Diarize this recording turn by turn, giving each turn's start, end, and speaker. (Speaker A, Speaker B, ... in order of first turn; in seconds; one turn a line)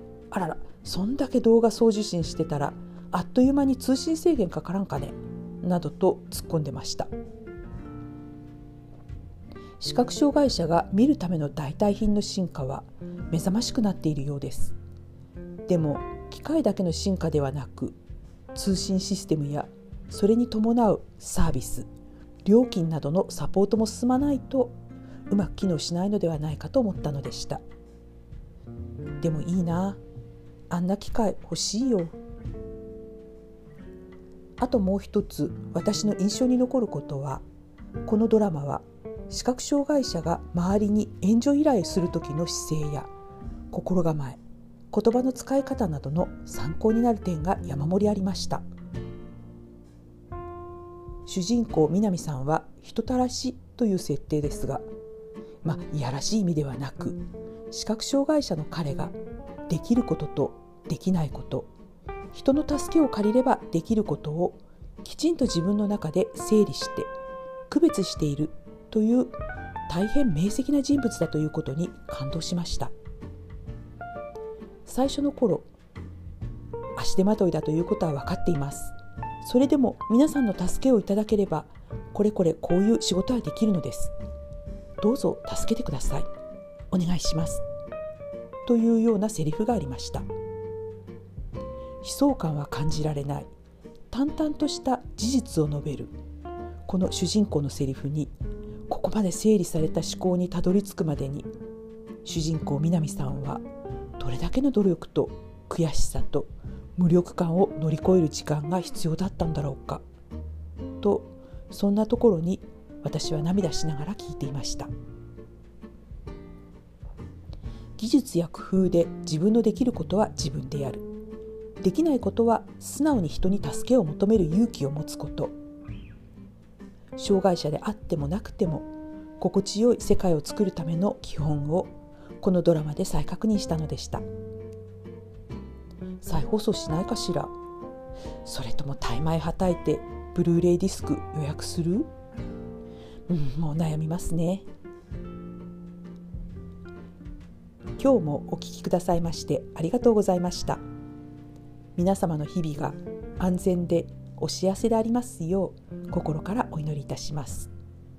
Speaker A: 0.3-7.1
Speaker A: 9.8-14.8
Speaker A: 15.7-18.0
Speaker A: 18.5-21.9
Speaker A: 22.4-24.8
Speaker A: 25.3-27.6
Speaker A: 29.2-30.0
Speaker A: 30.7-32.2
Speaker A: 34.6-37.4
Speaker A: 38.0-43.1
Speaker A: 43.7-48.6
Speaker A: 51.3-54.8
Speaker A: 55.6-59.2
Speaker A: 59.7-61.7
Speaker A: 62.3-67.1
Speaker A: 67.7-69.3
Speaker A: 69.9-72.9
Speaker A: 74.9-75.7
Speaker A: 77.0-84.1
Speaker A: 85.0-86.3
Speaker A: 86.9-87.6
Speaker A: 88.7-90.3
Speaker A: 92.0-93.5
Speaker A: 94.1-96.1
Speaker A: 96.9-98.3
Speaker A: 98.9-101.5
Speaker A: 102.2-103.6
Speaker A: 104.2-110.0
Speaker A: 111.0-114.9
Speaker A: 118.0-121.1
Speaker A: 121.8-125.5
Speaker A: 127.2-128.9
Speaker A: 129.4-134.2
Speaker A: 136.2-137.5
Speaker A: 138.4-142.1
Speaker A: 143.3-144.7
Speaker A: 148.0-150.8
Speaker A: 152.0-157.7